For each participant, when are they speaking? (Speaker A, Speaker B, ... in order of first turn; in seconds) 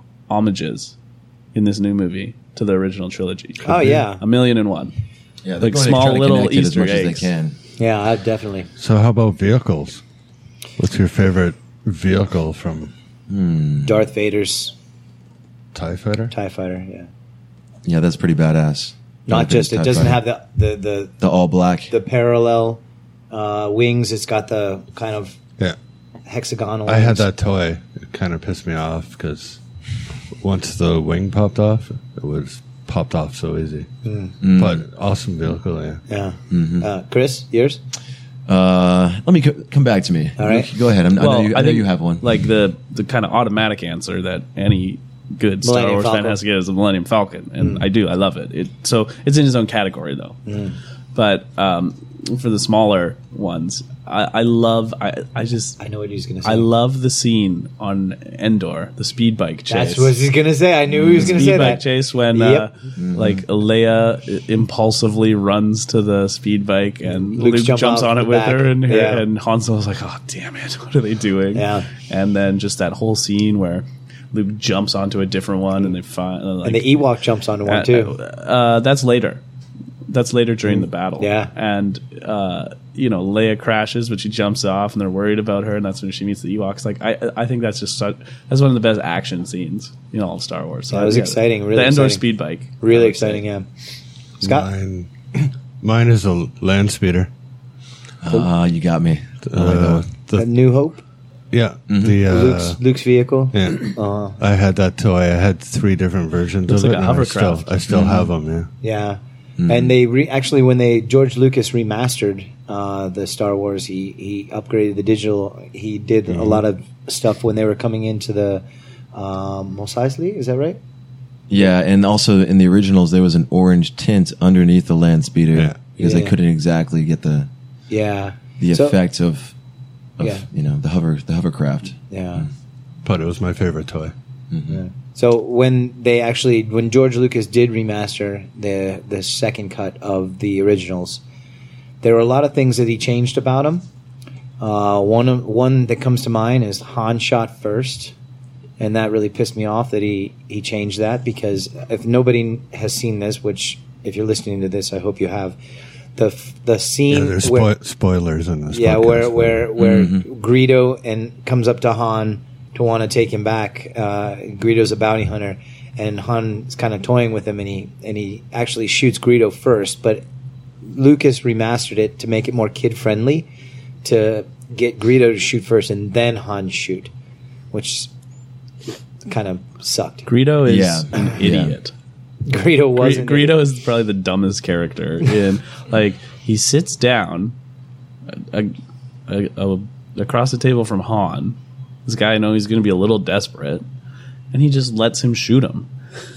Speaker A: 0.3-0.9, 1.5-4.9, 5.6-7.3, 41.2-50.4, 51.1-55.8, 56.4-60.2, 61.1-77.1, 77.7-79.4, 80.1-93.4, 106.7-107.7, 180.3-181.9, 182.9-187.6, 188.3-188.7, 189.3-193.8, 194.5-195.9
Speaker B: 3.6-4.2, 7.8-8.7, 13.8-14.7, 16.3-17.1, 19.3-21.1, 21.9-25.4, 26.3-27.3, 34.0-34.4, 36.1-37.8, 40.4-40.7, 45.6-46.4, 47.6-47.8, 50.5-50.8, 55.8-56.7, 59.7-62.7, 67.1-69.2, 71.5-71.9, 76.6-78.1, 80.7-81.5, 90.9-92.2, 92.8-93.7, 94.4-94.7, 100.4-101.0, 102.3-104.4, 108.8-120.8, 126.0-126.4, 127.9-129.0, 132.1-132.5, 134.7-141.2, 142.0-143.8, 144.6-148.1, 148.8-155.6, 156.2-157.7, 158.7-170.2, 170.8-173.5, 174.0-177.1, 177.7-178.1, 179.3-180.3, 182.5-183.6
Speaker C: 3.7-4.0, 8.8-10.0, 10.8-12.9, 15.7-16.3, 26.9-29.6, 30.4-33.9, 34.5-36.0, 94.4-97.3, 99.4-100.5, 101.5-102.8, 103.5-108.7, 125.5-125.8, 133.0-134.1, 157.1-159.7
Speaker D: 5.4-7.6, 13.3-14.0, 17.8-20.2, 21.2-21.9, 34.4-34.8, 36.5-36.9, 38.5-42.4, 60.9-61.4, 63.0-63.4, 98.2-100.0, 101.9-102.2, 107.9-108.3, 109.6-109.9, 121.5-127.5, 128.6-129.5, 130.2-132.4, 134.5-134.8, 159.8-160.2, 180.6-181.8